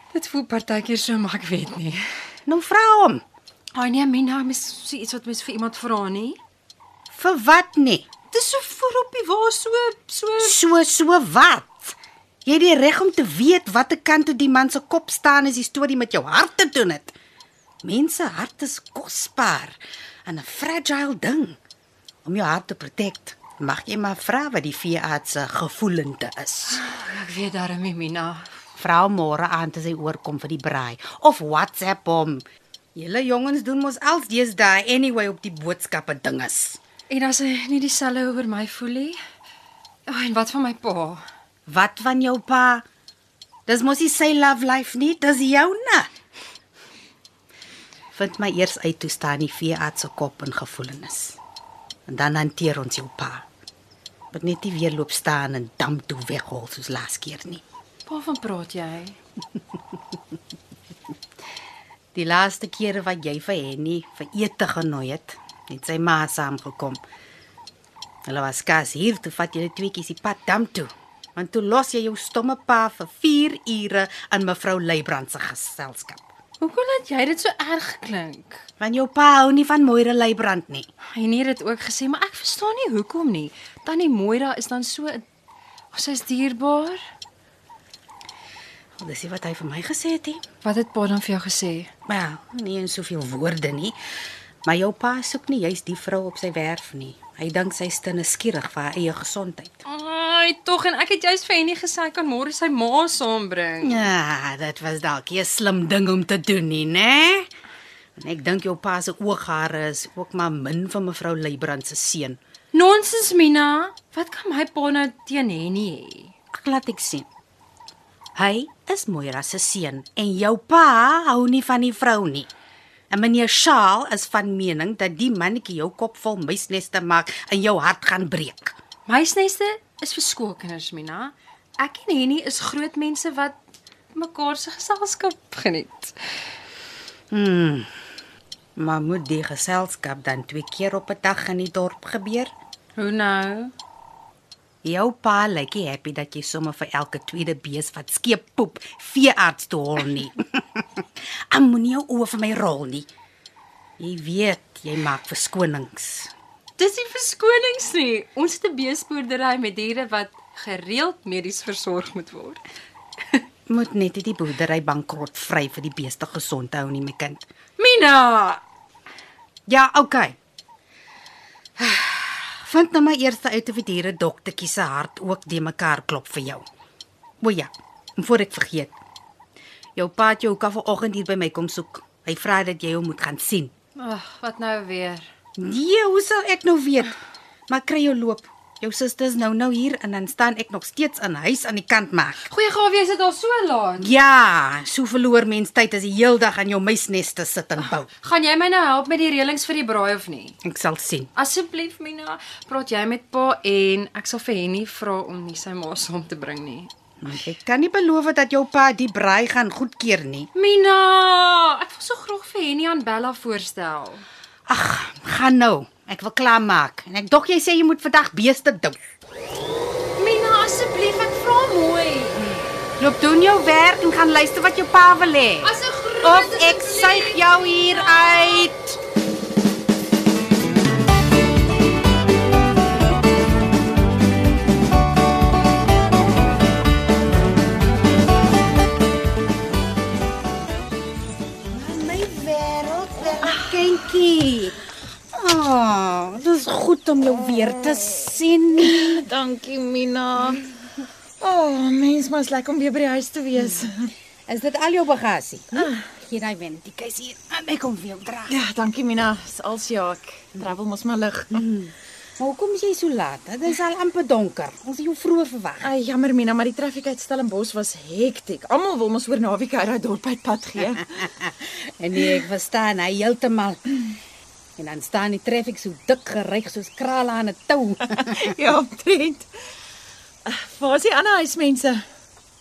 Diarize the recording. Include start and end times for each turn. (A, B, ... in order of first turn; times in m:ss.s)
0:00.1-0:02.0 A
0:02.5-0:03.2 B
0:03.8-0:06.4 A
0:07.1-0:08.1 B
0:08.3-0:10.6 A
0:10.4-0:17.1 B
0:17.8-0:21.6 B
0:22.2-0:26.8 B
0:26.7-0:28.5 A
0:28.8-0:36.8 B
0:37.1-0:39.2 A
0:40.1-0:41.2 A
0:41.7-0:42.8 B
0:43.7-0:46.1 B
0:48.1-0:51.4 B
0:52.1-0:53.4 B
0:54.3-0:57.6 B
0:58.1-0:59.2 A
1:02.1-1:07.0 B
1:08.2-1:16.2 B
1:16.6-1:18.6 A
1:18.8-1:20.9 B
1:21.1-1:25.2 A
1:25.9-1:27.0 A
1:29.0-1:30.4 B
1:30.6-1:31.9 A
1:32.1-1:34.0 B
1:34.6-1:39.8 B
1:39.9-1:44.0 A
1:43.8-1:47.5 B
1:48.2-1:52.4 B
1:52.7-1:56.3 A
1:56.5-1:57.3 B
1:58.4-2:02.5 B
2:03.1-2:08.8 B
2:09.1-2:13.6 A
2:14.2-2:16.2 A
2:17.3-2:17.9 B
2:18.8-2:22.5 B
2:23.0-2:23.7 A
2:24.8-2:33.1 B
2:34.0-2:36.3 B
2:36.8-2:42.6 A
2:43.7-2:47.4 B
2:47.8-2:48.6 A
2:49.7-2:50.4 B
2:51.8-2:56.6 B
2:57.4-2:59.0 B
3:00.0-3:03.7 B
3:04.0-3:05.3 A
3:05.6-3:07.2 B
3:07.7-3:12.5 B
3:12.5-3:14.1 A
3:14.0-3:18.1 B
3:18.2-3:20.6 A
3:20.6-3:21.3 B
3:21.4-3:26.9 A
3:27.2-3:30.5 B
3:30.6-3:34.2 A
3:34.7-3:39.0 B
3:40.2-3:42.5 A
3:42.5-3:49.0 B
3:45.6-3:48.7 A
4:01.7-4:04.8 B
4:05.3-4:09.3 B
4:08.8-4:10.6 C
4:11.4-4:14.1 C
4:14.5-4:18.5 B
4:15.7-4:16.0 C
4:18.5-4:21.6 C
4:21.5-4:25.9 B
4:25.8-4:31.1 C
4:31.4-4:33.9 B
4:34.8-4:38.5 B
4:38.2-4:39.5 C
4:40.4-4:42.0 C